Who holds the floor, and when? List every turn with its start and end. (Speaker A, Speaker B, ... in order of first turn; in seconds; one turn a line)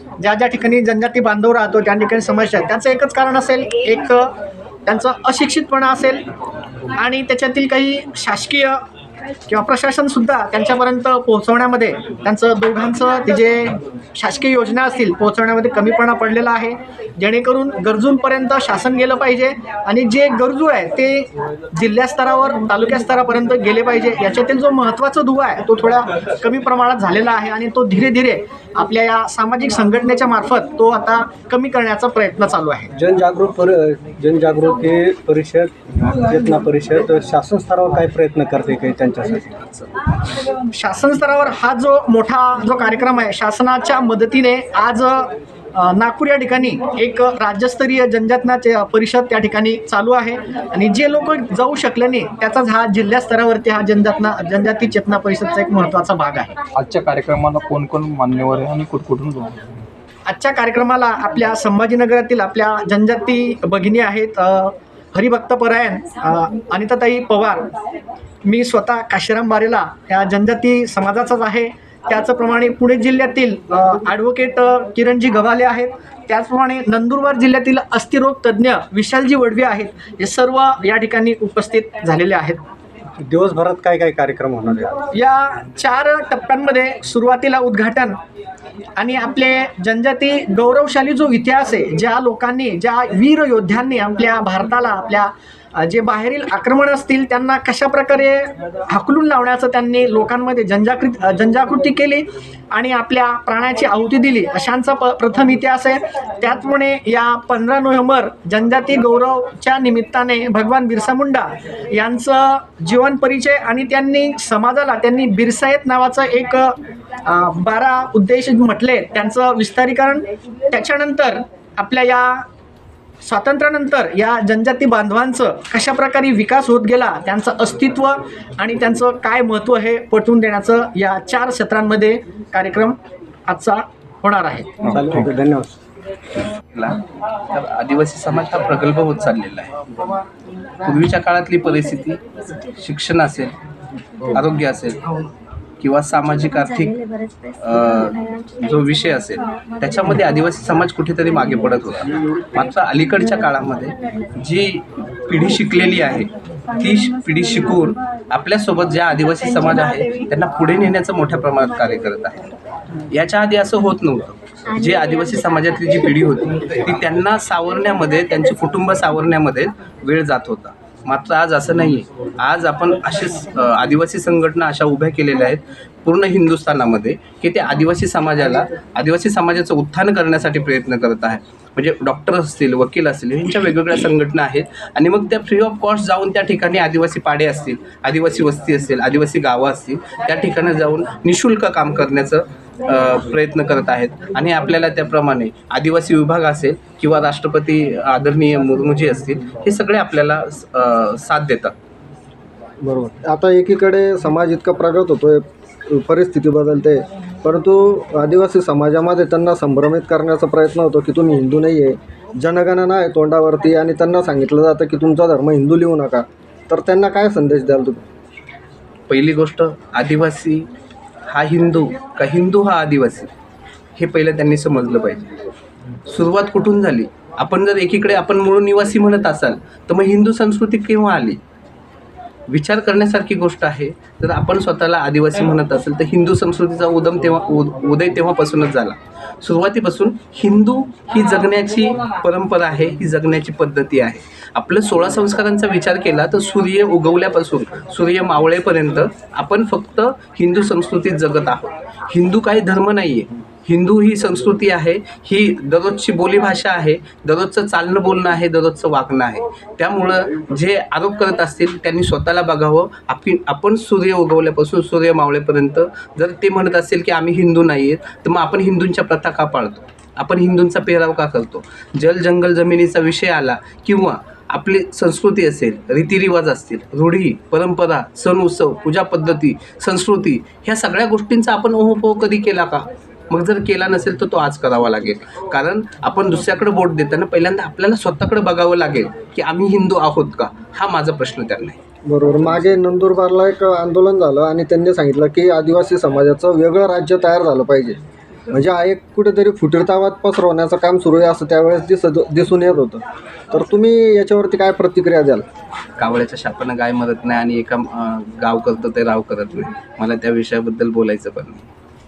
Speaker A: 0.2-4.3
Speaker A: 4.9-6.2
Speaker A: 7.0-8.8
Speaker A: 9.5-32.9
Speaker B: 32.9-39.6
Speaker A: 40.7-56.5
Speaker C: 56.8-59.6
Speaker A: 60.3-67.7
Speaker A: 68.5-82.6
Speaker B: 83.2-84.9
Speaker A: 85.2-88.2
Speaker A: 89.0-122.5
Speaker A: 123.2-134.7
Speaker C: 134.9-135.3
Speaker B: 134.9-135.7
Speaker D: 136.7-139.7
Speaker D: 140.8-143.6
Speaker D: 144.3-145.0
Speaker D: 145.8-147.0
Speaker D: 147.6-162.5
Speaker D: 163.1-201.7
Speaker E: 202.8-218.1
Speaker D: 219.1-220.7
Speaker D: 221.3-223.3
Speaker D: 224.0-225.3
Speaker D: 226.1-231.4
Speaker D: 232.5-291.8
Speaker E: 292.1-298.0
Speaker E: 298.5-305.4
Speaker D: 306.0-311.7